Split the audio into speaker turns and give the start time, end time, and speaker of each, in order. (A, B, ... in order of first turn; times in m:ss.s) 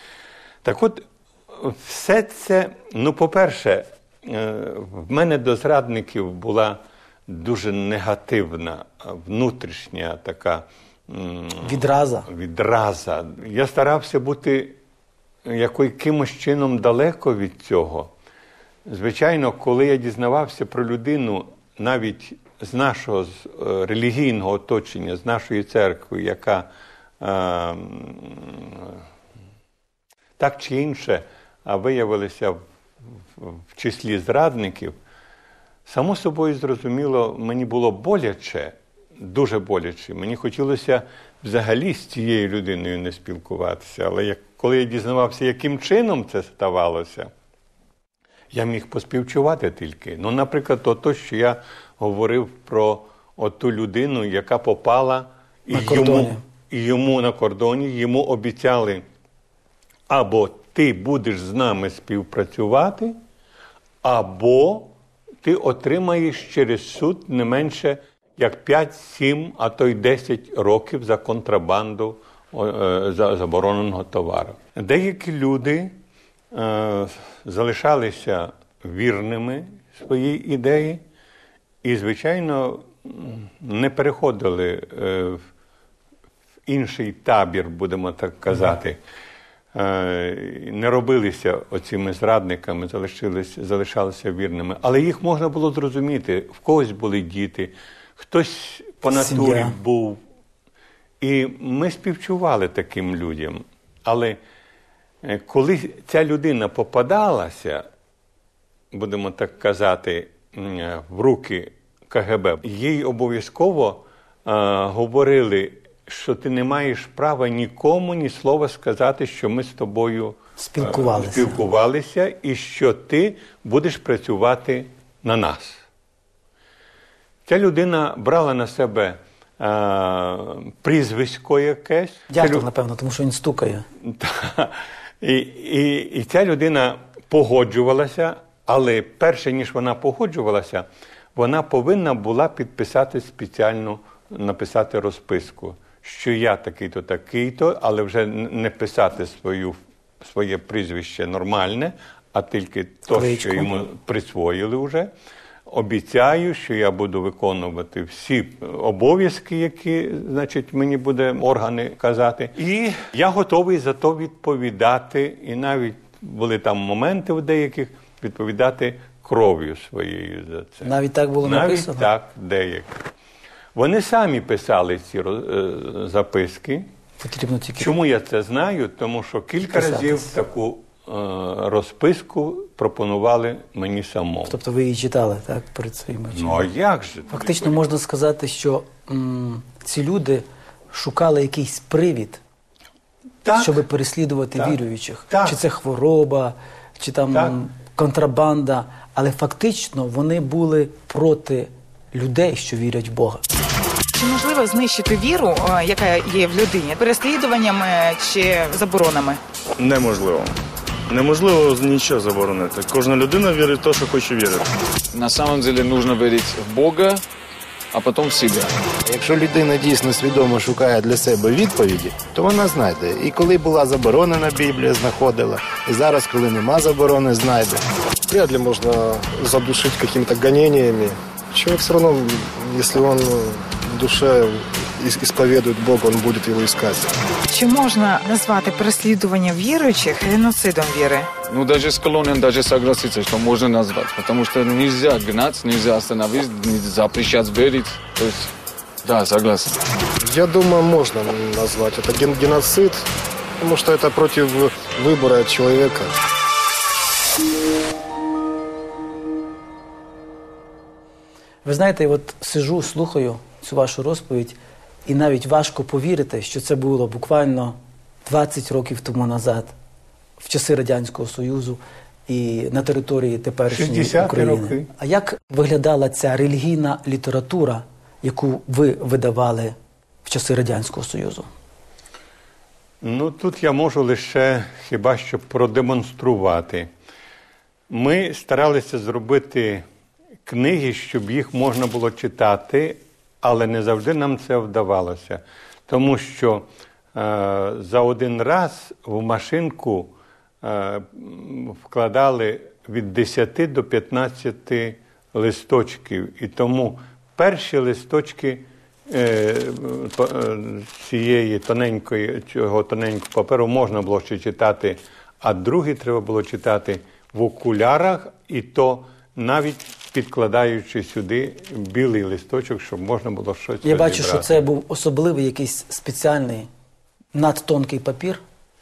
0:00.6-0:14.8 A
0:11.6-0:12.3 B
0:15.4-0:18.1 A
0:18.8-0:26.7 A
0:27.2-0:29.0 A
0:30.4-0:35.0 A
0:35.8-0:47.3 A
0:48.5-0:59.0 A
0:55.7-0:56.4 B
1:00.1-1:03.2 A
1:04.0-1:16.0 A
1:16.5-1:21.0 A
1:21.8-1:25.4 A
1:26.7-1:29.0 A
1:29.7-1:40.2 A
1:39.1-1:39.8 B
1:41.2-1:44.4 A
1:45.2-1:47.8 A
1:48.9-2:05.8 A
2:00.6-2:01.6 B
2:07.4-2:12.7 A
2:12.3-2:13.9 B
2:14.0-2:35.1 A
2:33.1-2:33.7 B
2:35.7-2:53.0 A
2:50.8-2:52.1 B
2:53.7-2:56.9 A
2:57.2-2:57.9 B
2:57.8-3:04.6 A
2:59.7-3:00.4 B
3:04.4-3:06.7 B
3:06.3-3:07.8 A
3:07.3-3:12.4 B
3:13.4-3:13.8 A
3:13.5-3:23.4 B
3:14.5-3:15.6 A
3:17.3-3:17.6 A
3:24.1-3:29.4 C
3:29.8-3:30.6 D
3:31.1-3:34.7 D
3:35.1-3:37.2 E
3:37.9-3:38.7 E
3:39.0-3:47.8 F
3:48.3-3:57.1 G
3:57.5-4:01.3 C
4:01.5-4:08.5 E
4:09.0-4:09.8 E
4:10.2-4:13.0 G
4:13.6-4:16.1 G
4:21.6-4:29.7 B
4:30.4-4:41.5 B
4:33.7-4:34.9 A
4:43.0-4:46.9 A
4:47.9-4:49.8 A
4:50.4-5:24.6 A
5:23.8-5:26.7 B
5:27.3-5:28.4 B